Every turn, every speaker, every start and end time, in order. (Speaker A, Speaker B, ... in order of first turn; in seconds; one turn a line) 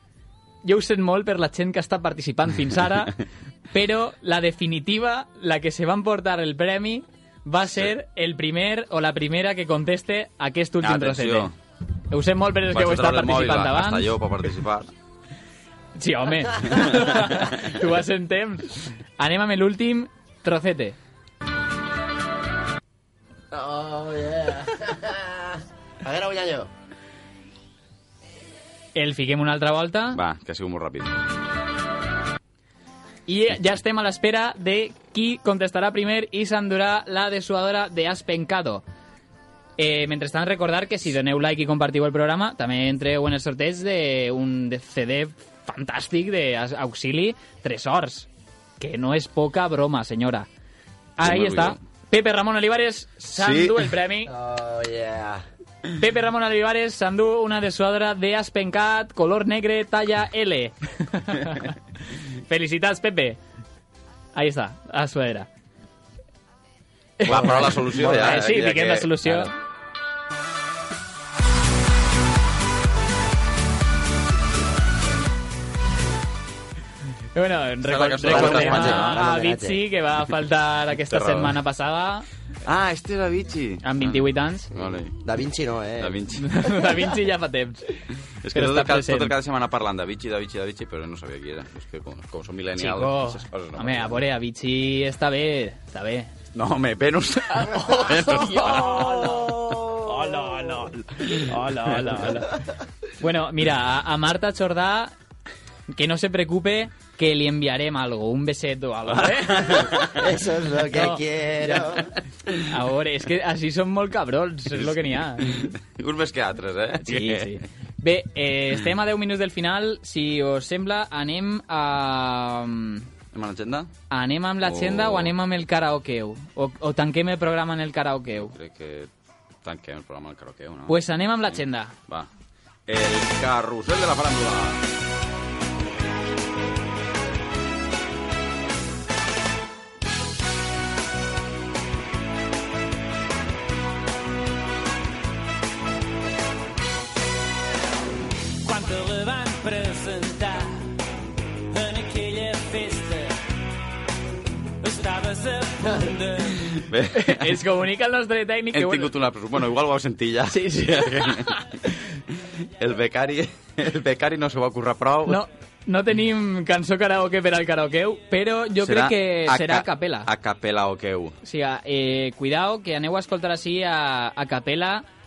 Speaker A: 0.6-3.2
Speaker A: 3.7-11.5
Speaker B: 7.7-7.9
Speaker B: 10.8-11.6
Speaker A: 12.1-14.1
Speaker B: 12.7-14.9
Speaker A: 16.0-21.0
Speaker C: 23.5-26.7
Speaker A: 28.9-30.2
Speaker B: 30.1-31.2
Speaker A: 33.3-38.8
Speaker A: 39.8-48.3
Speaker A: 48.8-50.5
Speaker A: 51.2-54.3
Speaker B: 51.2-51.8
Speaker B: 53.4-53.9
Speaker C: 54.3-55.4
Speaker A: 56.0-61.8
Speaker A: 62.5-63.4
Speaker A: 64.3-65.5
Speaker A: 67.2-69.5
Speaker B: 67.3-69.5
Speaker A: 77.3-82.3
Speaker B: 77.8-79.2
Speaker C: 78.2-79.8
Speaker B: 81.1-81.6
Speaker B: 82.7-85.2
Speaker A: 83.8-84.7
Speaker C: 85.2-86.2
Speaker B: 86.0-86.7
Speaker A: 86.3-88.0
Speaker B: 88.4-94.2
Speaker A: 88.5-89.3
Speaker A: 92.8-96.3
Speaker B: 96.5-99.6
Speaker A: 98.0-102.6
Speaker C: 98.9-100.2
Speaker A: 103.2-105.1
Speaker A: 105.9-110.2
Speaker B: 109.1-110.1
Speaker C: 110.0-112.1
Speaker A: 110.9-111.9
Speaker A: 112.6-115.5
Speaker B: 114.8-117.6
Speaker A: 117.0-123.1
Speaker B: 123.3-123.9
Speaker A: 124.1-128.5
Speaker B: 124.6-125.3
Speaker B: 128.4-129.1
Speaker B: 129.6-132.3
Speaker A: 130.9-131.9
Speaker B: 132.9-134.8
Speaker D: 148.7-150.3
Speaker D: 151.8-153.3
Speaker D: 154.8-156.4
Speaker B: 156.7-157.6
Speaker A: 157.1-159.1
Speaker B: 158.7-161.8
Speaker A: 160.5-162.0
Speaker B: 162.8-165.4
Speaker A: 165.3-170.3
Speaker B: 168.8-171.4
Speaker A: 171.4-175.1